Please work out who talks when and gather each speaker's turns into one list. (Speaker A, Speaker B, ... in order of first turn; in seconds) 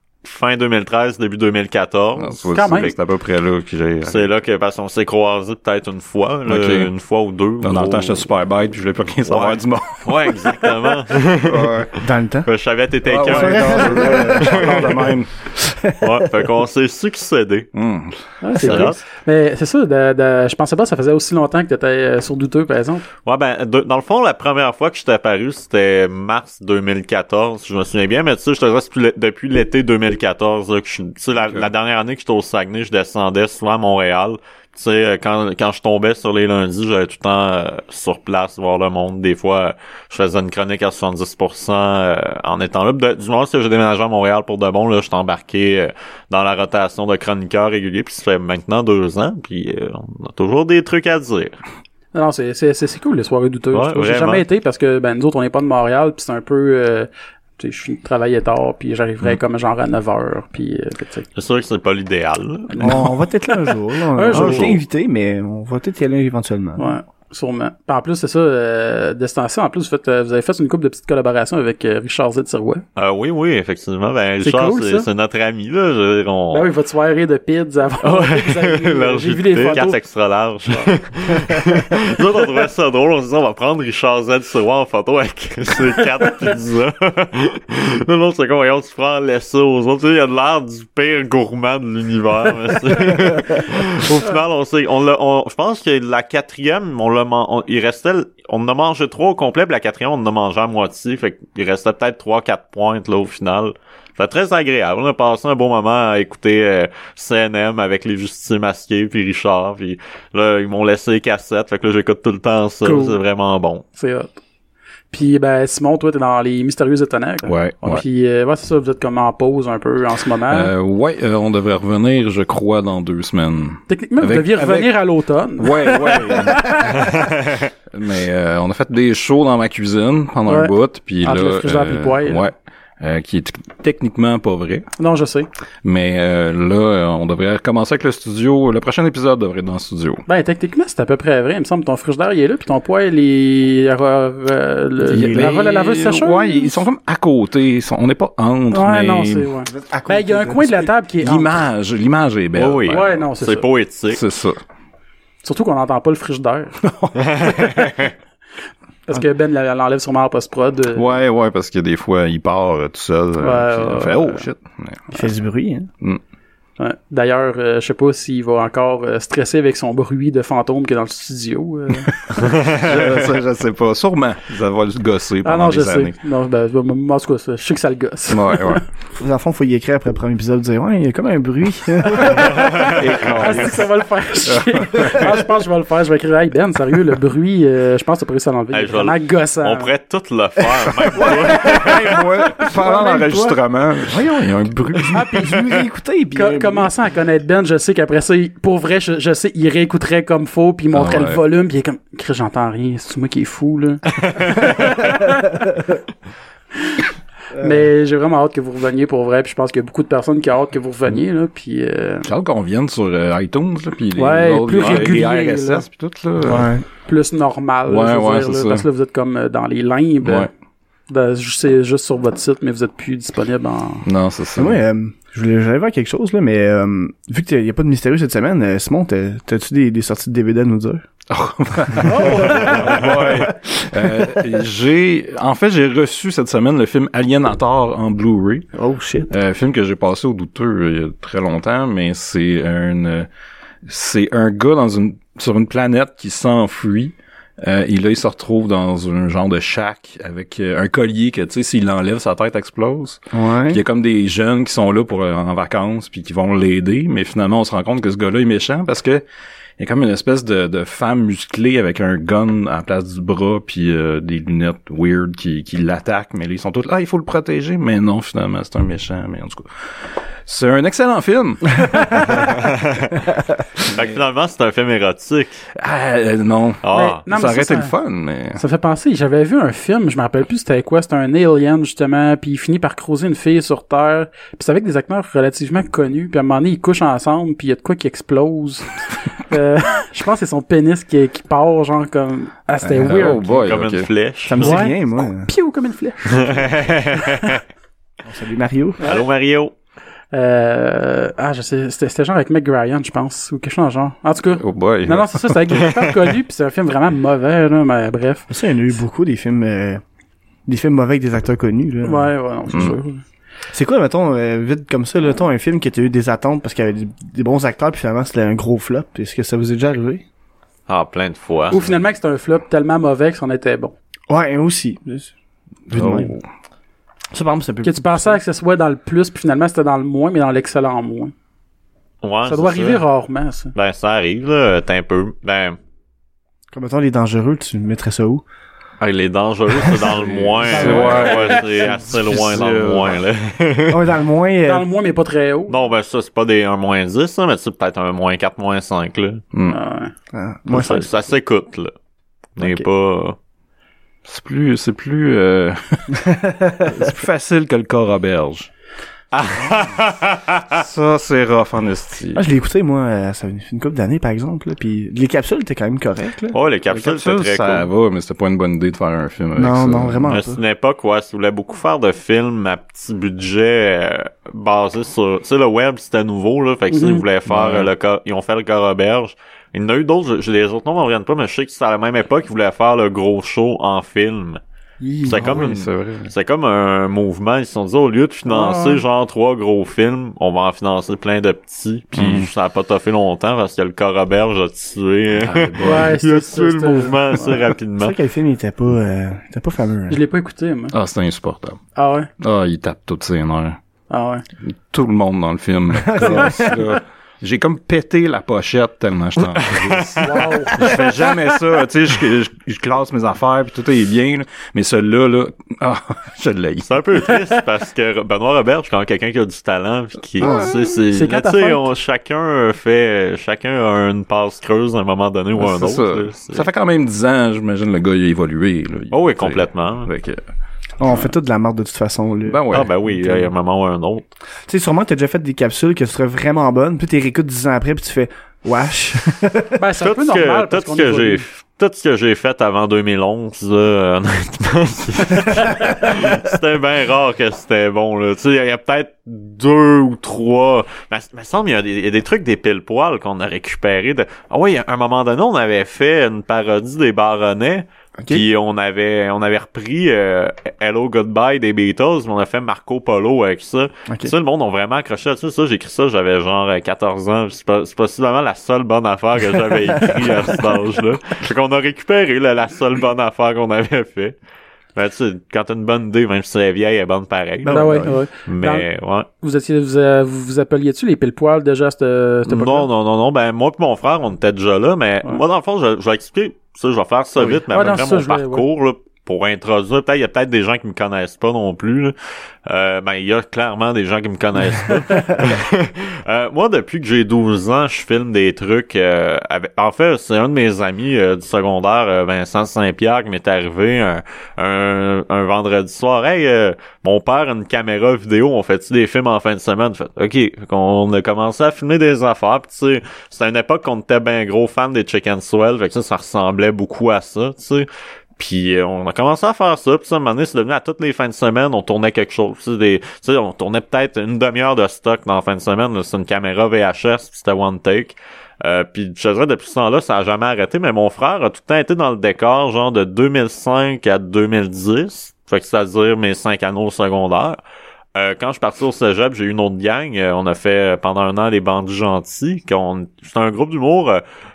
Speaker A: 0.2-3.0, 4.0-8.3, 9.3-15.0, 16.0-17.7, 18.6-19.0, 23.2-51.6, 53.7-54.4, 61.4-63.0, 64.3-64.8, 73.0-76.7, 78.0-113.8, 127.1-127.7, 152.6-154.2, 157.2-158.1, 172.3-173.1, 182.5-183.0, 188.7-192.0, 214.8-215.1, 232.5-233.1, 272.4-273.2, 273.8-275.6, 276.8-277.2, 293.4-294.8, 296.2-297.6, 299.1-299.7, 320.9-321.9, 332.2-333.0, 333.8-335.8, 339.0-344.1, 345.7-349.4, 350.7-351.9, 352.6-353.4, 359.3-360.8, 366.5-367.9, 370.3-384.6, 385.2-398.2, 409.6-410.7, 416.9-426.7, 429.1-430.1, 432.7-434.3, 440.0-474.3, 474.9-479.3, 482.5-492.1, 492.7-537.6, 538.1-544.2
Speaker B: 2.2-4.3, 6.5-6.9, 7.6-10.1, 11.4-11.9, 13.1-15.3, 17.7-18.3, 31.4-31.7, 117.5-118.0, 120.5-125.0, 125.6-127.2, 127.9-134.9, 135.8-140.2, 145.0-149.5, 151.2-153.1, 154.1-154.6, 156.8-158.0, 160.9-165.0, 172.3-176.1, 178.3-178.8, 182.4-183.9, 184.4-185.4, 191.1-195.4, 200.9-201.4, 212.2-216.7, 217.9-218.9, 220.2-220.5, 224.0-224.8, 231.3-238.7, 239.3-243.3, 243.8-259.2, 259.8-269.9, 270.4-272.5, 275.8-278.6, 292.9-294.1, 304.5-305.9, 312.7-313.0, 325.9-326.5, 340.1-343.2, 349.5-349.8, 354.2-358.7, 360.7-362.4, 366.9-370.4, 377.4-377.9, 385.3-386.3, 392.1-392.5, 395.4-396.2, 400.9-401.8, 402.4-403.8, 404.6-416.9, 425.6-430.5, 432.5-433.4
Speaker C: 2.5-2.9, 18.4-23.1, 52.1-61.3, 62.7-64.7, 66.8-72.8, 74.4-75.1, 76.5-80.0, 112.8-113.2, 113.9-114.3, 115.1-120.7, 123.9-127.0, 130.5-132.5, 135.0-135.5, 140.3-146.8, 148.7-151.6, 152.9-153.7, 155.4-156.8, 159.1-161.1, 163.4-164.4, 166.8-172.2, 175.4-178.8, 182.8-189.9, 195.1-195.7, 196.3-205.7, 206.9-212.3, 214.2-215.8, 217.1-220.5, 221.1-224.0, 232.0-233.2, 276.9-277.9, 278.6-293.4, 294.6-297.6, 299.0-299.3, 300.3-308.5, 312.0-313.2, 321.7-323.9, 327.8-331.3, 332.4-333.7, 340.7-341.9, 344.7-345.8, 349.7-350.1, 376.9-377.2, 385.0-385.5, 388.5-389.0, 395.8-397.6, 400.1-400.9, 401.9-402.3, 404.1-404.4, 406.2-406.5, 410.2-411.3, 421.1-421.9, 439.8-441.4, 445.4-445.9, 477.7-478.9, 479.4-482.9, 487.4-488.7, 495.1-495.4
Speaker D: 12.0-12.5, 13.2-15.0, 15.6-16.3, 18.5-18.9, 62.8-67.0, 149.7-150.9, 165.1-165.9, 179.2-182.9, 191.1-193.6, 194.9-196.9, 207.6-207.8, 216.4-216.8, 224.6-231.0, 238.7-239.3, 253.3-253.8, 294.5-295.5, 298.2-299.0, 308.5-310.0, 310.7-312.3, 313.7-320.2, 324.3-325.3, 325.9-326.4, 327.3-328.4, 336.7-338.4, 343.9-344.9, 350.3-351.1, 352.6-352.9, 356.1-357.1, 362.3-366.6, 369.6-370.6, 398.0-400.2, 406.0-406.8, 420.4-420.8, 431.0-432.6, 434.7-439.8, 458.2-458.4, 464.1-464.3, 477.6-478.2